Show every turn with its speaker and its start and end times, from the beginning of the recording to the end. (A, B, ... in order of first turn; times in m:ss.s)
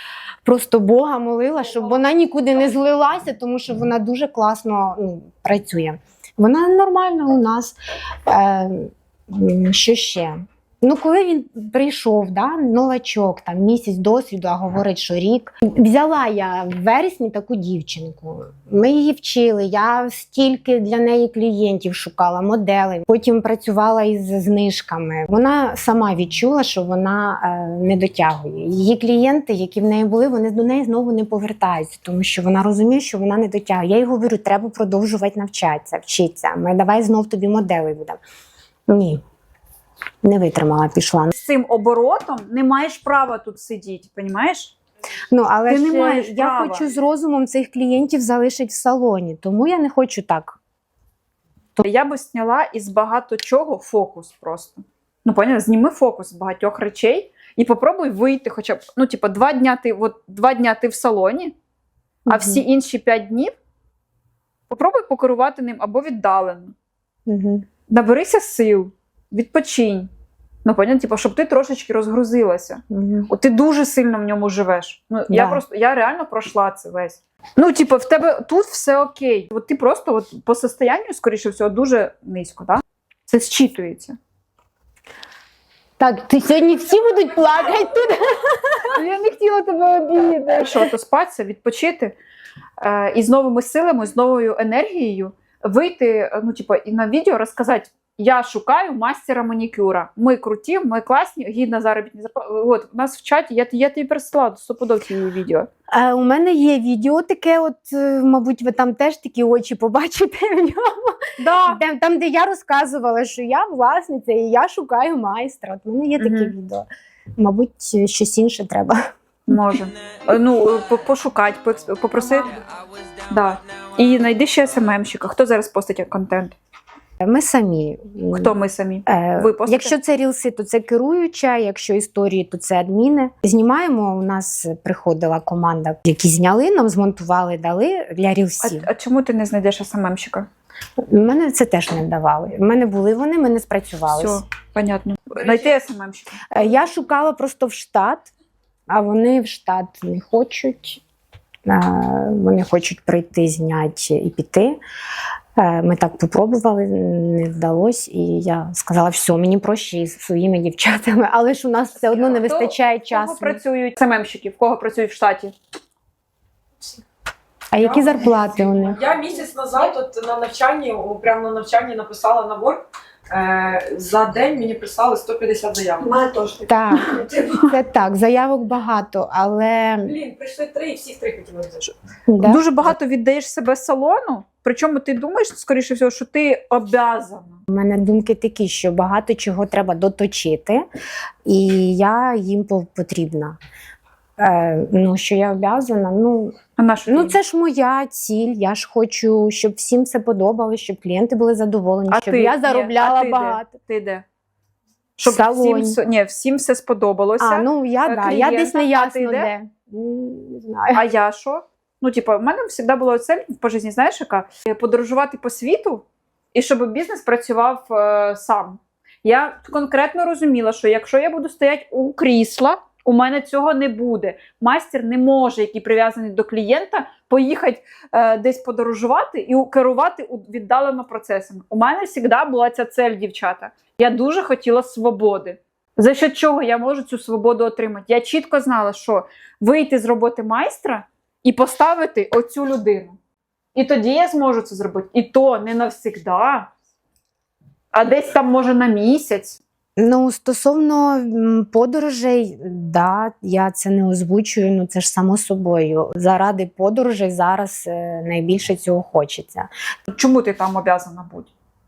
0:00.4-0:38.2 A
0:38.9-0:39.2 A
0:40.2-0:41.3 A
0:41.3-0:44.8 B
0:45.3-0:50.6 A
0:45.7-0:46.8 B
0:51.8-1:01.5 B
1:02.3-1:02.6 A
1:02.3-1:03.5 B
1:04.7-1:06.7 B
1:07.3-1:07.7 A
1:07.9-1:10.1 B
1:10.6-1:24.2 B
1:12.9-1:13.3 A
1:15.3-1:15.6 A
1:26.0-1:28.9 A
1:28.9-1:32.2 B
1:32.8-1:45.7 B
1:45.9-1:56.9 A
1:51.4-1:51.8 B
1:56.2-1:56.5 B
1:57.4-1:59.0 A
1:59.5-2:02.5 B
2:03.3-2:06.6 B
2:07.2-2:08.5 A
2:08.3-2:09.9 B
2:09.1-2:18.9 A
2:18.6-2:20.5 B
2:21.1-2:24.4 A
2:24.1-2:26.4 B
2:26.5-2:28.3 A
2:28.9-2:31.0 A
2:31.7-2:34.8 A
2:35.6-2:43.6 A
2:42.0-2:45.5 B
2:47.7-2:49.1 A
2:47.8-2:56.6 C
2:56.7-3:00.2 A
3:00.1-3:01.8 C
3:01.8-3:07.6 B
3:02.3-3:03.0 A
3:07.7-3:10.8 A
3:11.5-3:13.6 A
3:14.4-3:16.6 A
3:16.8-3:17.4 B
3:17.1-3:23.7 A
3:22.1-3:24.2 B
3:25.2-3:29.5 B
3:25.3-3:26.0 A
3:27.4-3:31.0 A
3:30.9-4:03.2 B
4:03.8-4:06.7 B
4:07.9-4:09.6 B
4:10.0-4:19.7 A
4:20.1-4:21.5 B